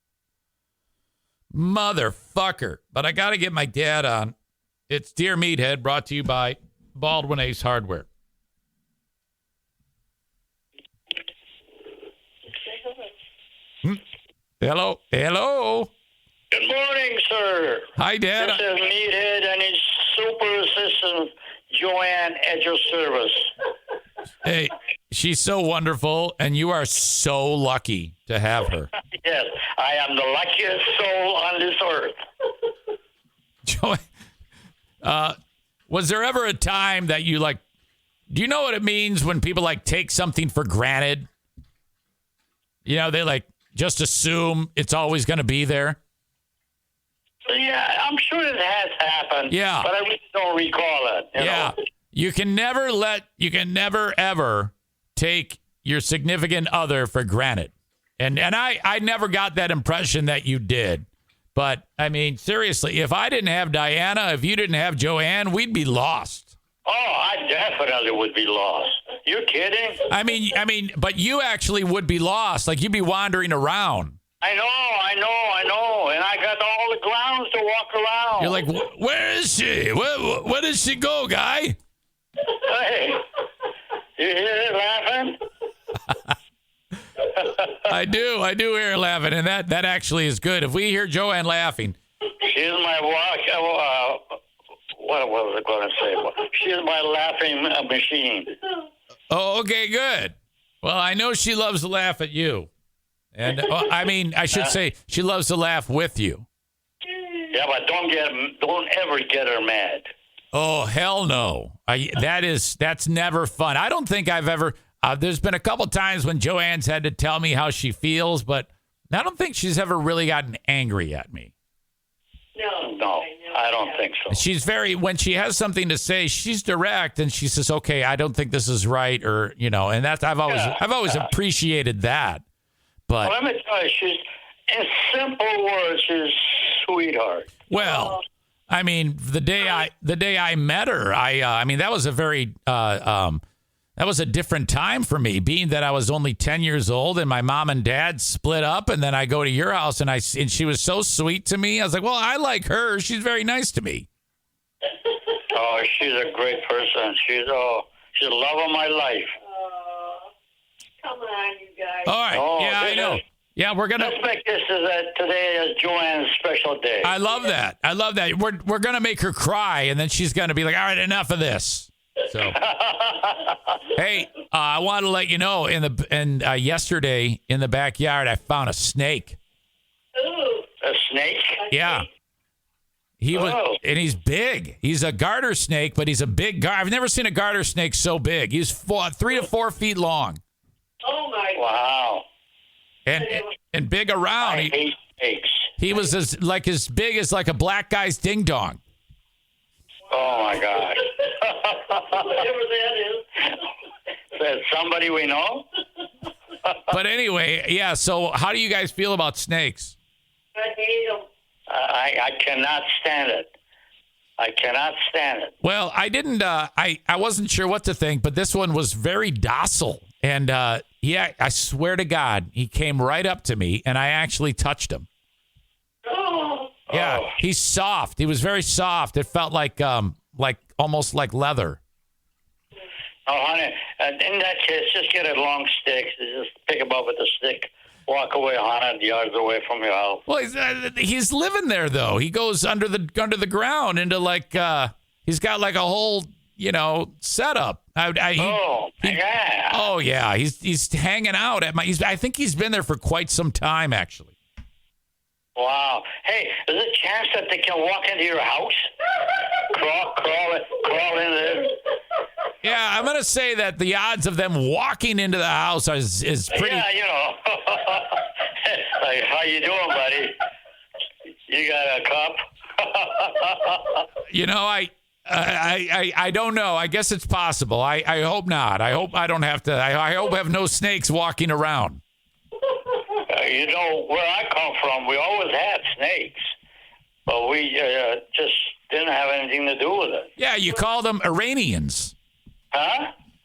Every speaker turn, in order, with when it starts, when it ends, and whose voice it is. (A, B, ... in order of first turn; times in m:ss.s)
0:01.5-0:04.3 A
0:04.9-0:08.1 A
0:14.6-0:15.9 A
0:16.5-0:23.5 B
0:18.0-0:18.6 A
0:24.4-0:28.9 A
0:29.1-0:32.2 B
0:33.6-0:34.0 A
0:35.0-0:35.4 A
0:35.9-0:37.6 A
0:38.3-0:41.3 A
0:42.8-0:46.0 A
0:47.4-0:51.8 B
0:49.5-0:49.9 A
0:51.4-1:06.5 A
1:06.8-1:10.1 B
1:10.1-1:14.2 A
1:14.4-1:18.6 B
1:18.4-1:21.8 A
1:22.4-1:23.2 B
1:24.2-1:25.4 B
1:27.4-1:27.9 B
1:27.8-1:32.0 A
1:32.4-1:34.4 B
1:35.0-1:38.6 B
1:39.3-1:42.7 A
1:43.3-1:46.4 A
1:47.5-1:50.1 B
1:50.5-2:01.5 A
2:02.5-2:03.9 C
2:02.8-2:04.4 B
2:04.3-2:12.4 A
2:10.5-2:11.3 B
2:13.1-2:13.3 A
2:13.2-2:17.5 B
2:17.7-2:23.4 A
2:17.7-2:18.0 C
2:24.0-2:34.1 A
2:35.5-2:39.4 B
2:39.5-2:40.3 C
2:41.0-2:42.2 C
2:42.0-2:44.2 A
2:42.3-2:43.2 B
2:44.0-2:47.1 B
2:47.0-2:52.6 A
2:52.5-2:53.6 B
2:53.8-2:59.4 A
3:00.1-3:00.7 C
3:00.8-3:01.7 B
3:01.7-3:02.0 C
3:01.7-3:02.0 A
3:03.2-3:10.4 A
3:03.3-3:03.8 B
3:11.0-3:11.7 C
3:11.5-3:12.2 B
3:13.0-3:14.7 A
3:14.4-3:15.7 B
3:15.8-3:18.8 A
3:20.1-3:22.5 B
3:22.0-3:23.5 C
3:24.3-3:25.6 B
3:26.6-3:26.9 B
3:26.9-3:30.0 A
3:30.5-3:31.2 C
3:31.7-3:33.5 B
3:34.4-3:35.5 B
3:35.6-3:45.1 A
3:46.0-3:46.7 C
3:46.9-3:47.4 B
3:46.9-3:51.8 A
3:53.2-4:00.2 B
4:00.3-4:09.2 A
4:08.4-4:09.9 B
4:09.7-4:14.3 A
4:15.6-4:18.9 B
4:19.4-4:21.8 B
4:22.6-4:26.8 A
4:26.5-4:30.4 B
4:31.5-4:34.0 B
4:34.3-4:42.0 A
4:43.2-4:46.4 B
4:47.3-4:50.3 B
4:50.4-4:52.1 A
4:52.7-4:53.1 B